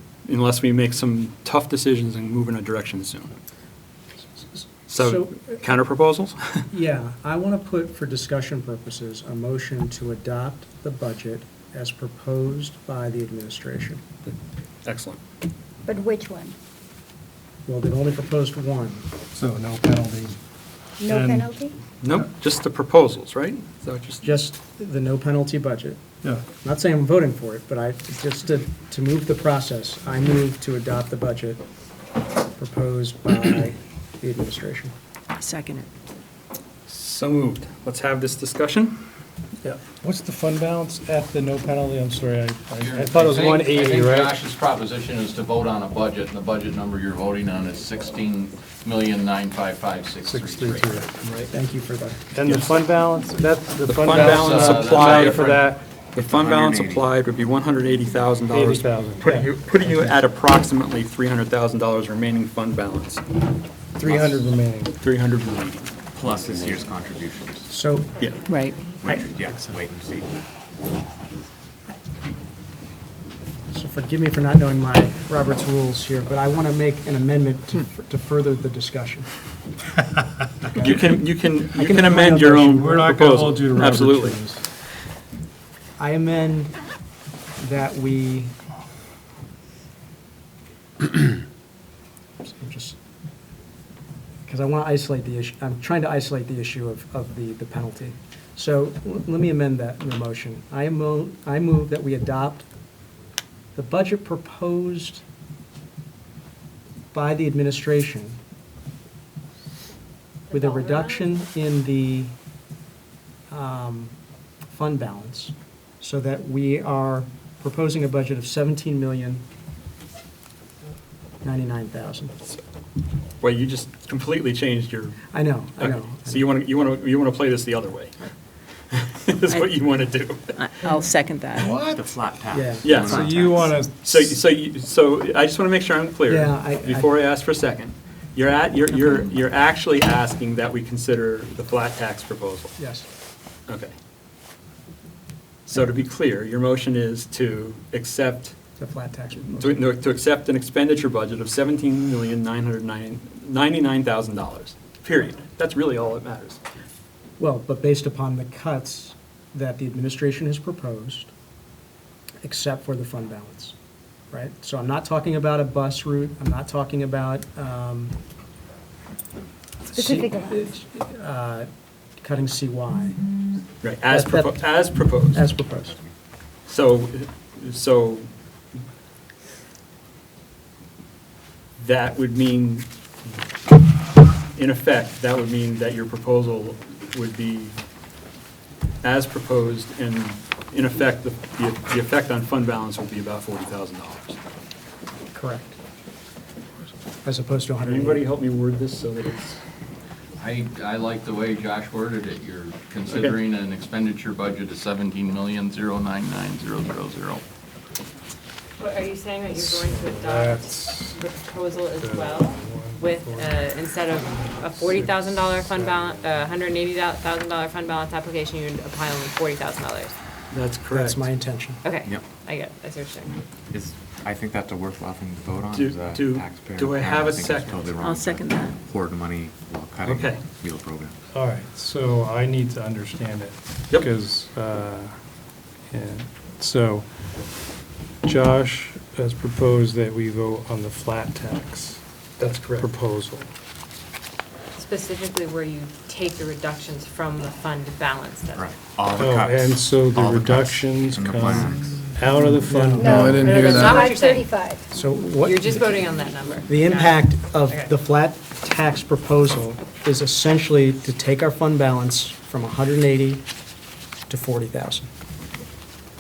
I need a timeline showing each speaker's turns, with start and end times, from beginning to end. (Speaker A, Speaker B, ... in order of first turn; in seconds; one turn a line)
Speaker A: 0.3-3.4
Speaker B: 4.4-5.5
Speaker A: 4.9-6.7
Speaker B: 6.7-14.0
Speaker A: 14.3-15.2
Speaker C: 15.9-16.6
Speaker B: 17.7-19.1
Speaker D: 19.3-20.4
Speaker C: 21.0-21.8
Speaker D: 21.1-21.5
Speaker A: 22.0-24.3
Speaker B: 24.2-26.0
Speaker D: 26.2-26.5
Speaker B: 26.5-31.6
Speaker B: 32.6-34.9
Speaker E: 35.4-35.9
Speaker A: 36.9-39.0
Speaker D: 39.6-44.4
Speaker F: 42.8-50.9
Speaker D: 50.2-51.1
Speaker A: 51.2-51.5
Speaker B: 51.5-52.2
Speaker D: 52.3-56.0
Speaker A: 52.5-52.8
Speaker A: 53.9-55.6
Speaker F: 54.1-55.6
Speaker A: 56.1-63.2
Speaker G: 56.2-57.1
Speaker D: 58.5-60.2
Speaker D: 64.0-65.0
Speaker A: 65.0-66.7
Speaker G: 66.1-67.7
Speaker B: 67.7-68.3
Speaker E: 68.5-68.8
Speaker G: 69.0-70.3
Speaker A: 69.0-69.3
Speaker B: 73.7-79.3
Speaker B: 80.7-81.1
Speaker A: 80.8-84.4
Speaker B: 81.8-83.1
Speaker D: 82.7-84.6
Speaker B: 86.0-86.8
Speaker B: 87.6-88.5
Speaker B: 92.4-93.0
Speaker B: 94.5-102.7
Speaker B: 103.8-105.2
Speaker B: 107.1-108.4
Speaker H: 110.5-111.3
Speaker B: 110.5-112.3
Speaker B: 113.5-114.2
Speaker B: 114.7-119.5
Speaker B: 121.4-122.3
Speaker A: 123.4-128.2
Speaker B: 125.3-126.5
Speaker A: 128.9-130.7
Speaker E: 129.5-129.8
Speaker E: 130.6-131.7
Speaker D: 131.6-132.0
Speaker G: 131.7-133.8
Speaker B: 132.5-133.0
Speaker A: 132.8-133.4
Speaker D: 133.0-134.4
Speaker A: 134.0-142.8
Speaker B: 136.3-137.1
Speaker B: 142.8-143.1
Speaker A: 143.7-143.9
Speaker A: 145.7-148.5
Speaker B: 148.8-149.9
Speaker A: 149.4-156.6
Speaker B: 157.4-161.3
Speaker B: 162.4-163.8
Speaker B: 164.3-168.2
Speaker B: 169.9-171.7
Speaker C: 169.9-170.7
Speaker B: 172.2-173.3
Speaker A: 173.8-175.5
Speaker B: 174.1-176.0
Speaker A: 176.7-178.3
Speaker A: 181.8-182.9
Speaker A: 184.6-187.8
Speaker A: 189.0-194.4
Speaker B: 195.3-195.8
Speaker B: 197.2-198.2
Speaker A: 197.8-199.6
Speaker F: 200.4-207.4
Speaker A: 203.1-203.3
Speaker H: 208.8-220.1
Speaker D: 209.5-211.2
Speaker D: 212.0-216.5
Speaker A: 220.5-221.3
Speaker B: 220.9-221.8
Speaker H: 221.8-223.4
Speaker G: 223.7-231.1
Speaker A: 225.7-228.0
Speaker E: 228.0-228.8
Speaker A: 230.1-230.4
Speaker D: 231.3-235.2
Speaker D: 235.9-237.1
Speaker D: 238.2-242.0
Speaker A: 242.4-242.9
Speaker D: 242.8-243.5
Speaker H: 244.8-248.7
Speaker G: 248.6-252.1
Speaker D: 249.2-253.5
Speaker B: 252.6-253.7
Speaker C: 252.9-254.8
Speaker H: 253.3-254.6
Speaker B: 254.9-256.1
Speaker H: 255.3-257.9
Speaker B: 256.7-263.4
Speaker B: 264.3-265.1